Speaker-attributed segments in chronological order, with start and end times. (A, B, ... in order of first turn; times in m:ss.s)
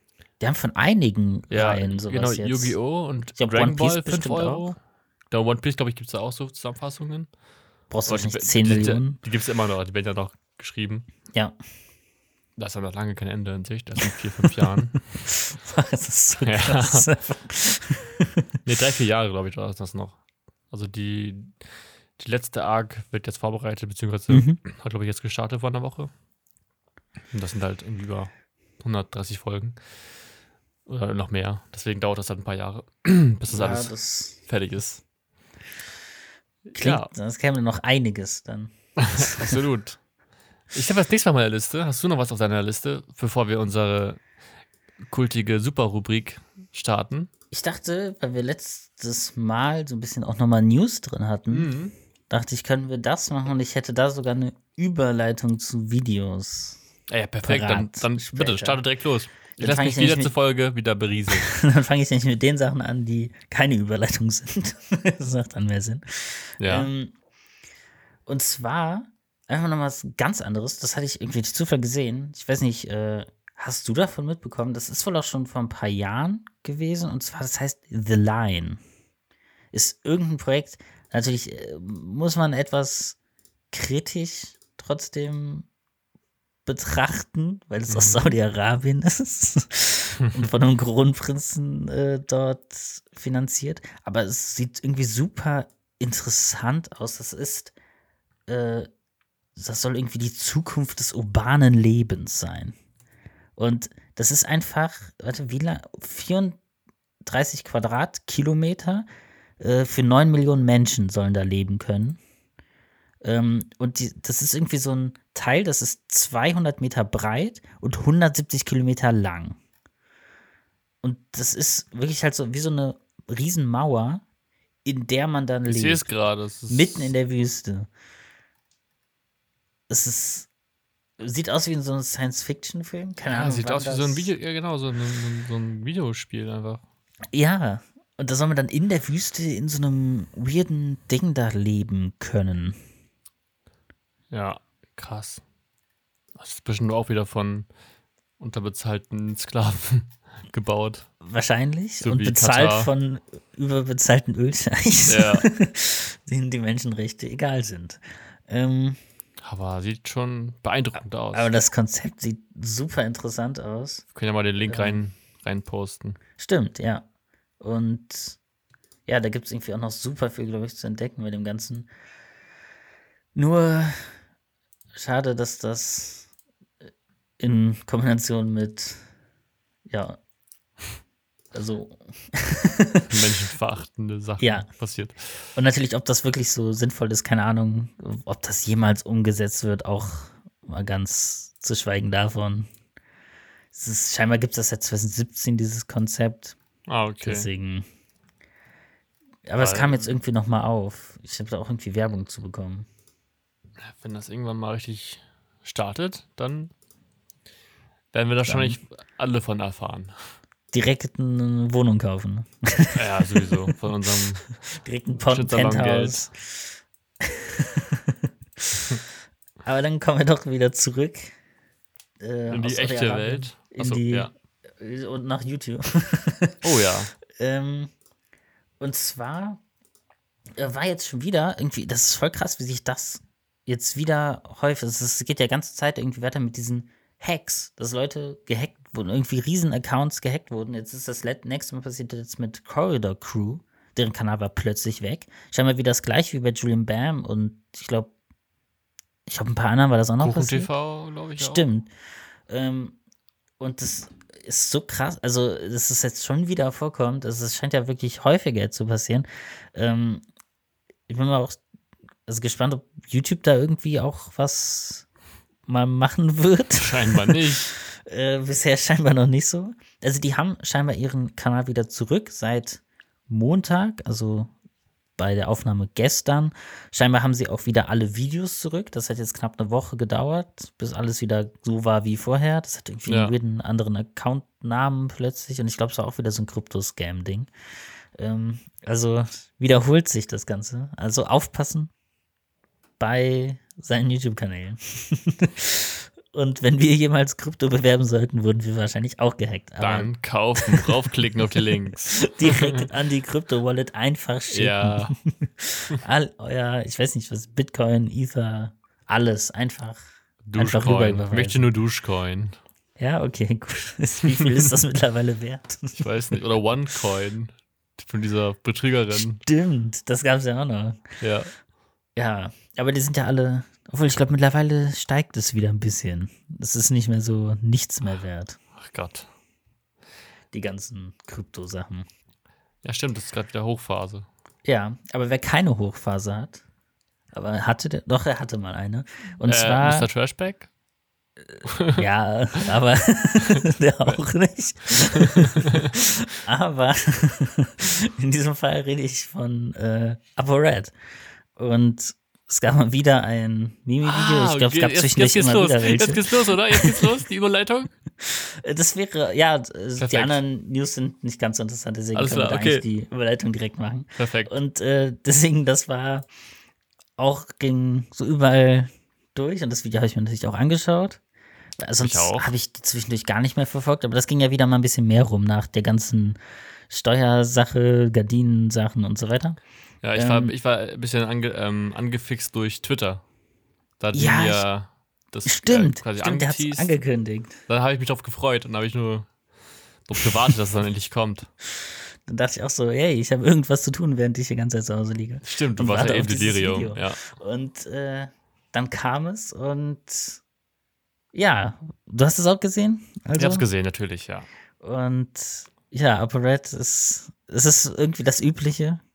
0:00.4-0:02.8 A
0:01.5-0:04.8 B
0:03.4-0:04.7 A
0:05.3-0:07.3 B
0:07.9-0:09.2 A
0:08.1-0:11.1 B
0:12.6-0:15.0 B
0:15.3-0:18.4 A
0:16.4-0:17.1 B
0:18.6-0:20.2 B
0:20.7-0:21.6 B
0:22.2-0:26.1 B
0:24.3-0:24.6 A
0:27.3-0:29.8 B
0:30.9-0:35.0 B
0:33.5-0:34.4 A
0:36.8-0:37.1 B
0:36.8-0:39.6 A
0:39.0-0:40.0 B
0:40.7-0:44.2 B
0:45.1-0:47.3 B
0:47.5-0:51.7 A
0:51.5-0:51.9 B
0:52.3-0:56.8 A
0:57.1-1:01.5 B
0:57.4-0:58.8 A
0:59.6-1:00.3 A
1:01.3-1:07.1 A
1:06.6-1:06.9 B
1:08.3-1:18.8 A
1:19.7-1:23.2 A
1:23.7-1:25.7 A
1:26.7-1:37.7 A
1:27.9-1:28.4 B
1:38.5-1:38.9 A
1:39.6-1:42.8 A
1:43.6-1:46.6 A
1:47.2-1:49.1 A
1:49.6-1:52.2 A
1:53.2-1:59.6 A
2:01.0-2:04.2 A
2:04.8-2:06.1 A
2:05.7-2:07.1 B
2:06.7-2:07.9 A
2:09.9-2:10.5 A
2:11.2-2:14.3 A
2:13.3-2:16.8 B
2:17.3-2:22.8 A
2:24.3-2:25.4 B
2:26.4-2:27.7 B
2:28.4-2:31.1 B
2:31.2-2:39.0 A
2:32.0-2:32.9 B
2:35.1-2:35.4 B
2:39.4-2:41.6 B
2:41.3-2:44.0 A
2:44.1-2:46.2 B
2:44.7-2:45.0 A
2:46.4-2:47.0 A
2:47.6-2:48.4 A
2:49.1-2:51.9 A
2:53.4-2:54.2 A
2:54.9-2:56.3 A
2:57.4-2:59.0 A
2:59.9-3:00.2 A
3:01.5-3:03.1 A
3:03.1-3:05.5 B
3:04.4-3:04.7 A
3:05.6-3:12.7 A
3:13.7-3:16.6 A
3:16.9-3:17.5 B
3:17.2-3:17.9 A
3:19.5-3:22.9 A
3:19.6-3:20.1 B
3:23.9-3:26.7 B
3:28.1-3:30.2 B
3:28.5-3:28.8 A
3:30.7-3:33.5 A
3:32.9-3:34.5 B
3:34.6-3:36.7 A
3:35.3-3:36.3 B
3:37.2-3:38.8 A
3:39.6-3:41.4 A
3:42.2-3:46.6 A
3:42.5-3:44.3 B
3:46.6-3:47.1 B
3:47.4-3:47.9 A
3:48.8-3:49.6 A
3:50.6-4:08.1 A
4:09.3-4:10.7 A
4:10.2-4:11.6 B
4:11.4-4:11.9 A
4:12.5-4:13.0 A
4:13.6-4:20.2 A
4:21.1-4:21.6 A
4:22.3-4:25.1 A
4:25.7-4:34.5 A
4:26.8-4:27.7 B
4:35.2-4:47.5 A
4:43.1-4:43.3 B
4:48.2-4:51.9 A
4:53.0-5:01.0 A
4:59.8-5:02.8 B
5:01.7-5:10.0 A
5:04.5-5:05.2 B
5:10.4-5:12.6 B
5:10.6-5:11.6 A
5:13.0-5:16.1 A
5:16.0-5:19.4 B
5:19.4-5:21.1 A
5:21.2-5:21.5 B
5:22.2-5:28.6 A
5:28.8-5:29.3 B
5:30.5-5:32.0 A
5:32.8-5:34.3 B
5:34.6-5:36.6 A
5:37.3-5:40.1 A
5:39.5-5:40.7 B
5:41.7-5:42.0 B
5:42.0-5:50.9 A
5:45.1-5:45.9 B
5:51.6-5:57.1 A
5:54.0-5:57.9 B
5:58.2-6:06.3 A
6:00.0-6:00.4 B
6:02.1-6:02.8 B
6:04.2-6:04.6 B
6:07.2-6:11.2 A
6:11.8-6:16.4 A
6:12.0-6:12.5 B
6:16.9-6:19.6 A
6:20.0-6:23.2 B
6:20.2-6:20.5 A
6:24.0-6:27.0 B
6:24.1-6:24.6 A
6:25.5-6:27.6 A
6:27.7-6:29.3 B
6:30.1-6:31.5 B
6:31.8-6:40.4 A
6:35.4-6:37.2 B
6:41.3-6:43.6 A
6:43.4-6:44.5 B
6:44.8-6:49.0 A